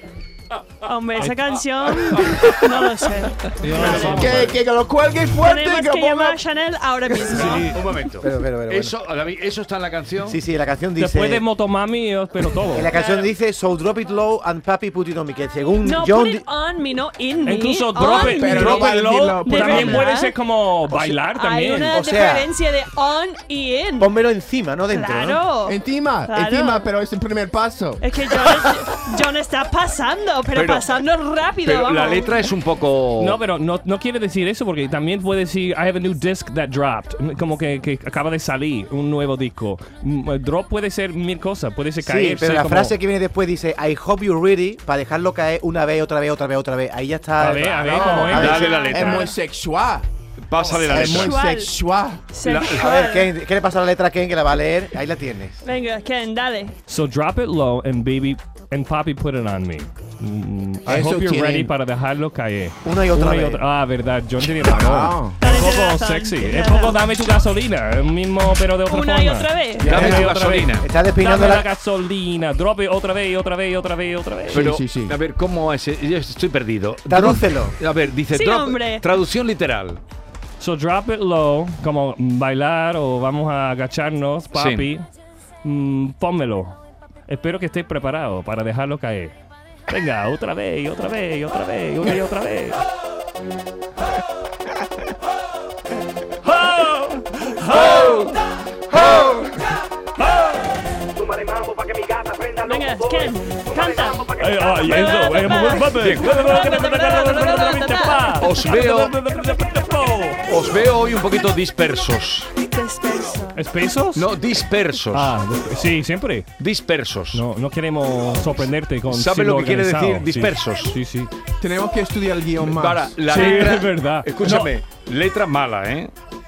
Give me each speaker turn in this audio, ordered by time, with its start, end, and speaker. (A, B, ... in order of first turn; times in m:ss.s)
0:00.8-0:04.3 A
0:01.2-0:01.6 B
0:03.5-0:04.6 B
0:03.8-0:06.4 C
0:05.4-0:07.8 A
0:07.3-0:10.4 D
0:07.4-0:07.7 B
0:08.2-0:08.9 E
0:10.2-0:11.4 E
0:11.0-0:12.9 B
0:12.7-0:16.4 E
0:12.8-0:13.3 A
0:15.8-0:20.4 A
0:17.4-0:21.9 B
0:18.0-0:20.1 C
0:20.9-0:24.1 A
0:21.9-0:22.5 E
0:24.0-0:25.4 E
0:24.9-0:25.8 A
0:25.6-0:28.1 C
0:26.3-0:26.9 A
0:28.0-0:32.4 A
0:30.5-0:31.0 D
0:31.6-0:33.4 D
0:33.2-0:43.0 B
0:42.0-0:48.6 E
0:47.4-0:49.2 B
0:47.8-0:50.1 C
0:48.4-0:49.1 D
0:48.4-0:49.4 A
0:50.4-0:51.4 D
0:50.8-0:51.7 A
0:50.9-0:52.2 C
0:52.3-0:53.3 A
0:52.4-0:52.9 D
0:52.7-0:55.6 E
0:55.6-0:56.7 A
0:56.9-1:14.7 B
1:00.9-1:01.7 C
1:02.8-1:03.6 E
1:04.6-1:05.4 C
1:05.4-1:07.0 A
1:08.9-1:09.9 A
1:09.8-1:10.3 C
1:09.8-1:10.9 D
1:09.9-1:11.7 E
1:14.5-1:15.2 C
1:14.5-1:20.0 D
1:17.1-1:17.8 E
1:18.3-1:19.0 A
1:20.6-1:25.0 B
1:24.5-1:24.9 D
1:25.6-1:29.4 B
1:29.9-1:32.8 B
1:36.4-1:38.4 B
1:37.7-1:38.4 D
1:39.0-1:39.4 D
1:39.0-1:39.4 B
1:40.2-1:40.7 B
1:42.6-1:48.5 A
1:44.3-1:50.5 B
1:46.0-1:46.4 D
1:48.4-1:49.1 D
1:50.4-1:52.5 D
1:52.6-1:53.6 A
1:53.6-1:54.3 B
1:54.2-1:55.4 D
1:55.1-1:56.5 B
1:56.6-1:57.4 D
1:57.3-2:01.3 B
1:58.4-2:00.9 D
2:01.6-2:03.2 C
2:02.6-2:06.1 D
2:03.3-2:04.7 B
2:03.3-2:03.8 A